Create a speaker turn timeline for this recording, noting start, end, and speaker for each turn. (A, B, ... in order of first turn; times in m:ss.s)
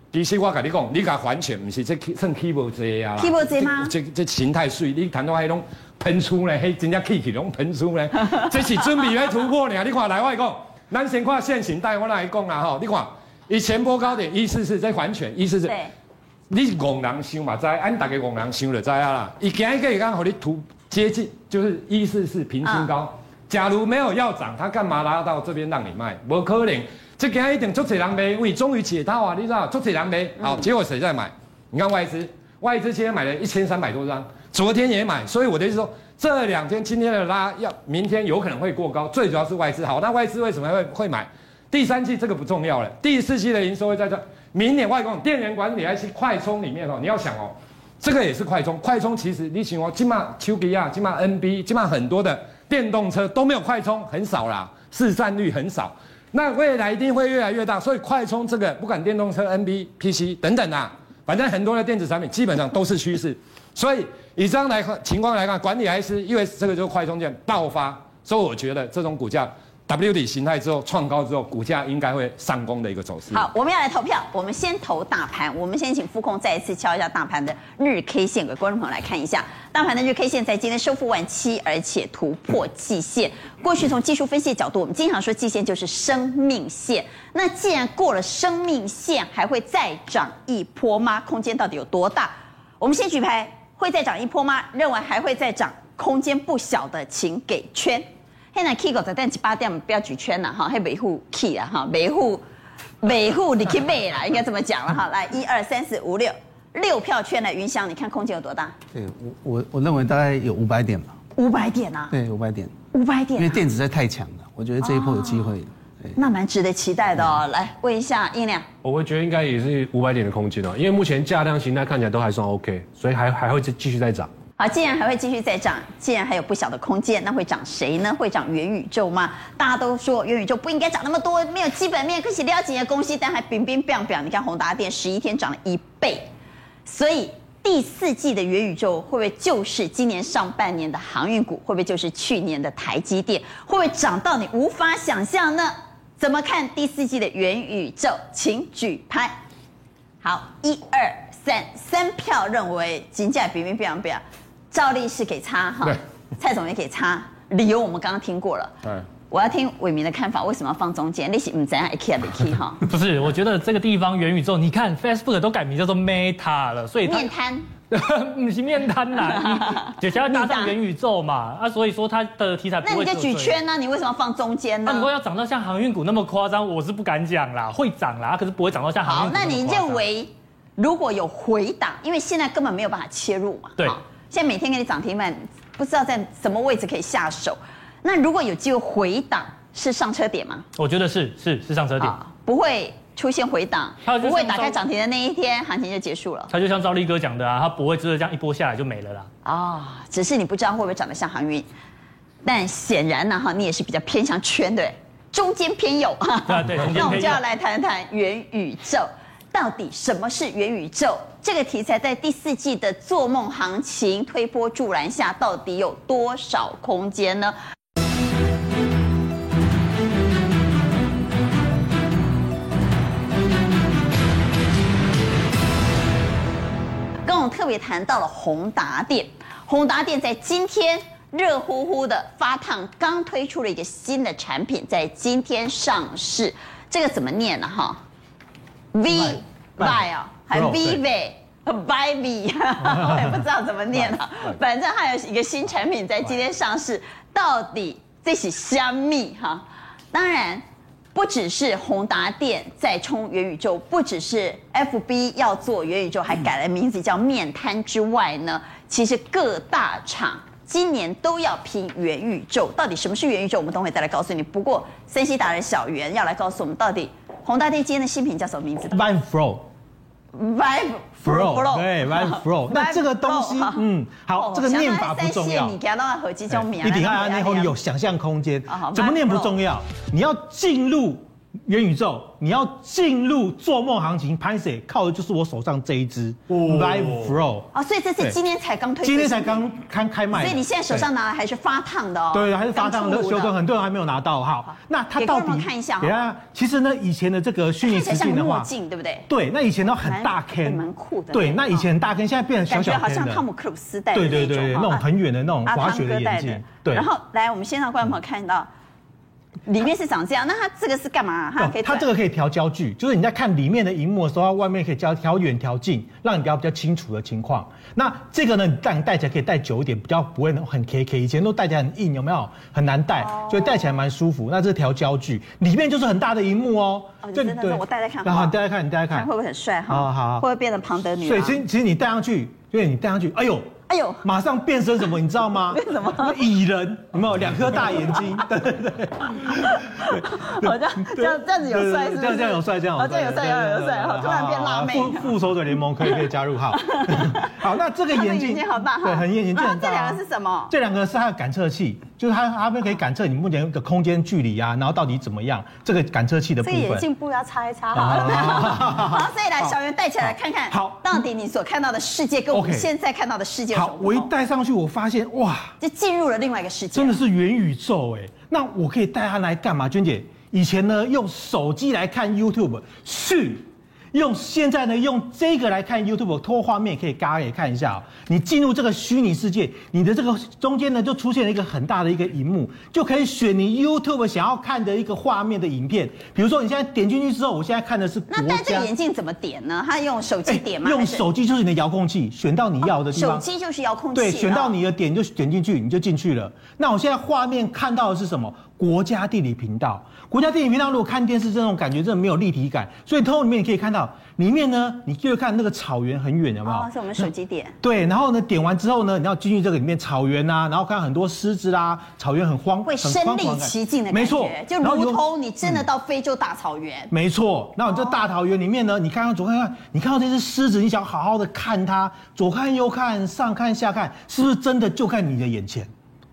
0:00.1-0:15.8 A
0:03.2-0:03.9 B
0:15.6-0:15.9 B
0:16.5-1:13.4 A
0:22.6-0:22.9 B
1:13.3-1:42.4 B
1:43.0-1:48.7 B
1:48.9-1:51.1 C
1:51.4-1:52.1 B
1:52.1-1:52.7 C
1:52.9-1:53.6 B
1:53.4-1:56.1 C
1:54.8-1:55.5 B
1:56.2-1:58.6 B
1:58.8-2:04.3 D
2:04.6-2:16.3 B
2:16.8-2:29.4 B
2:30.2-2:38.7 B
2:39.3-2:42.8 B
2:42.8-2:47.3 E
2:47.0-2:47.7 B
2:47.9-2:53.6 E
2:49.3-2:50.7 B
2:52.8-2:55.1 B
2:54.8-3:00.0 E
2:59.0-3:10.7 B
3:10.8-3:12.2 E
3:12.0-3:16.5 B
3:14.0-3:14.8 E
3:16.5-3:19.3 E
3:19.4-3:21.7 B
3:22.4-3:37.6 B
3:26.5-3:27.4 E
3:47.2-3:58.0 B
3:58.9-4:29.0 B
3:59.1-4:01.0 F
4:02.9-4:03.2 F
4:28.9-4:29.7 F
4:30.3-4:37.7 B
4:31.2-4:35.8 F
4:36.6-4:48.4 F
4:38.7-4:39.5 B
4:47.7-4:49.6 B
4:49.0-4:51.1 F
4:50.3-4:53.5 B
4:52.3-4:58.7 F
4:55.2-4:56.2 B
4:57.8-4:59.3 B
4:59.3-5:03.4 F
5:00.0-5:01.8 B
5:02.7-5:05.0 B
5:04.1-5:07.1 F
5:05.6-5:08.7 B
5:09.6-5:12.1 B
5:11.6-5:29.3 F
5:23.2-5:23.9 B
5:27.2-5:28.5 B
5:29.1-5:31.6 B
5:29.9-5:30.4 F
5:31.2-5:33.7 F
5:33.9-5:34.2 B
5:34.2-5:57.0 F
5:35.7-5:36.4 B
5:39.6-5:45.3 B
5:46.8-5:47.5 B
5:48.1-5:50.7 B
5:56.6-6:04.3 B
5:57.9-5:59.7 F
6:00.7-6:01.2 F
6:02.5-6:02.9 F
6:03.7-6:05.7 F
6:05.8-6:07.2 B
6:06.9-6:28.9 F
6:28.3-6:31.2 B
6:30.4-6:33.4 F
6:33.1-6:34.8 B
6:34.1-6:46.9 F
6:46.6-6:47.8 B
6:47.8-6:55.8 F
6:52.8-6:57.1 B
6:57.1-7:05.9 F
6:57.9-6:58.2 B